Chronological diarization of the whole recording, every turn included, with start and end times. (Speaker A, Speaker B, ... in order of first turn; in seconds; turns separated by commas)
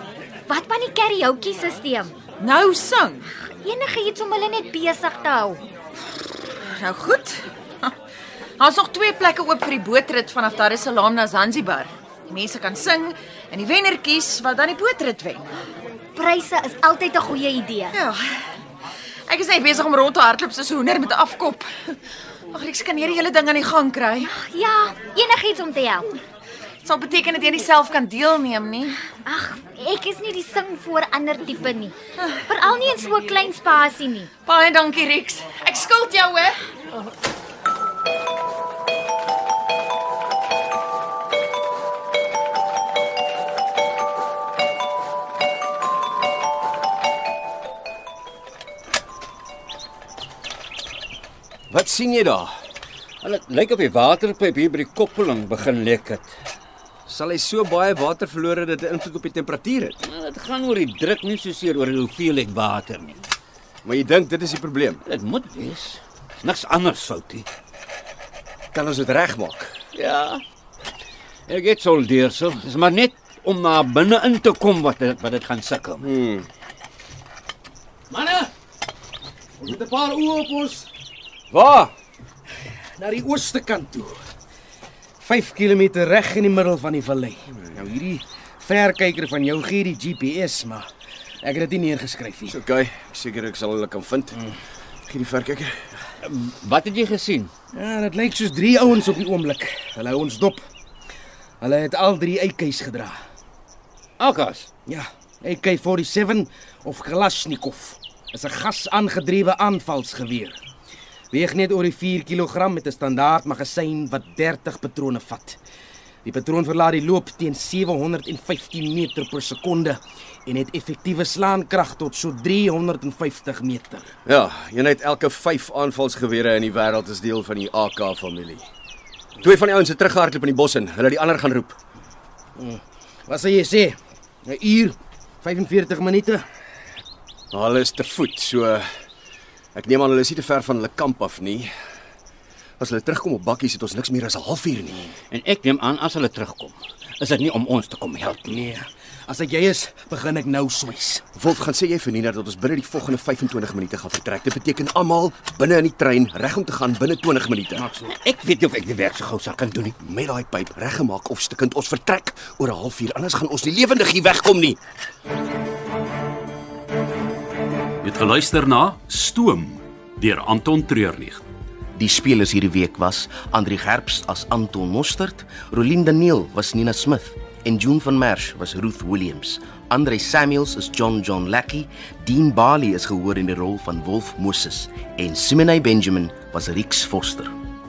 Speaker A: 0.5-2.2, Speaker B: 2.4-3.3, Speaker A: 3.6-5.6, Speaker B: 6.7-7.9, Speaker B: 8.6-15.5, Speaker A: 16.1-18.0, Speaker B: 17.9-18.4, Speaker B: 19.3-21.7, Speaker B: 22.5-24.3, Speaker A: 24.2-26.1, Speaker B: 26.9-29.0, Speaker A: 29.1-32.0, Speaker A: 32.5-34.3, Speaker B: 34.5-36.6, Speaker C: 51.7-52.5, Speaker D: 53.2-56.3, Speaker C: 57.1-60.0, Speaker D: 60.0-63.2, Speaker C: 63.8-65.0, Speaker D: 65.0-67.5, Speaker C: 68.7-69.8, Speaker D: 69.9-70.4, Speaker D: 71.5-76.1, Speaker C: 76.0-76.5, Speaker E: 78.1-78.5, Speaker E: 79.6-80.9, Speaker C: 81.5-81.9, Speaker E: 83.0-84.2, Speaker E: 85.2-90.9, Speaker E: 91.4-92.6, Speaker C: 92.5-94.4, Speaker C: 95.1-95.8, Speaker D: 96.2-97.5, Speaker E: 97.7-100.6, Speaker E: 101.6-103.2, Speaker D: 104.2-104.7, Speaker E: 104.9-110.6, Speaker E: 111.3-115.6, Speaker E: 116.2-124.1, Speaker C: 124.3-128.7, Speaker C: 129.4-131.8, Speaker E: 132.6-136.5, Speaker C: 137.5-138.9, Speaker C: 139.8-141.7, Speaker C: 142.8-145.1, Speaker D: 145.3-148.7, Speaker E: 148.5-151.3, Speaker C: 151.4-157.9, Speaker E: 157.7-158.1, Speaker D: 158.1-160.0, Speaker C: 160.0-164.8, Speaker F: 168.0-171.4, Speaker G: 172.0-187.5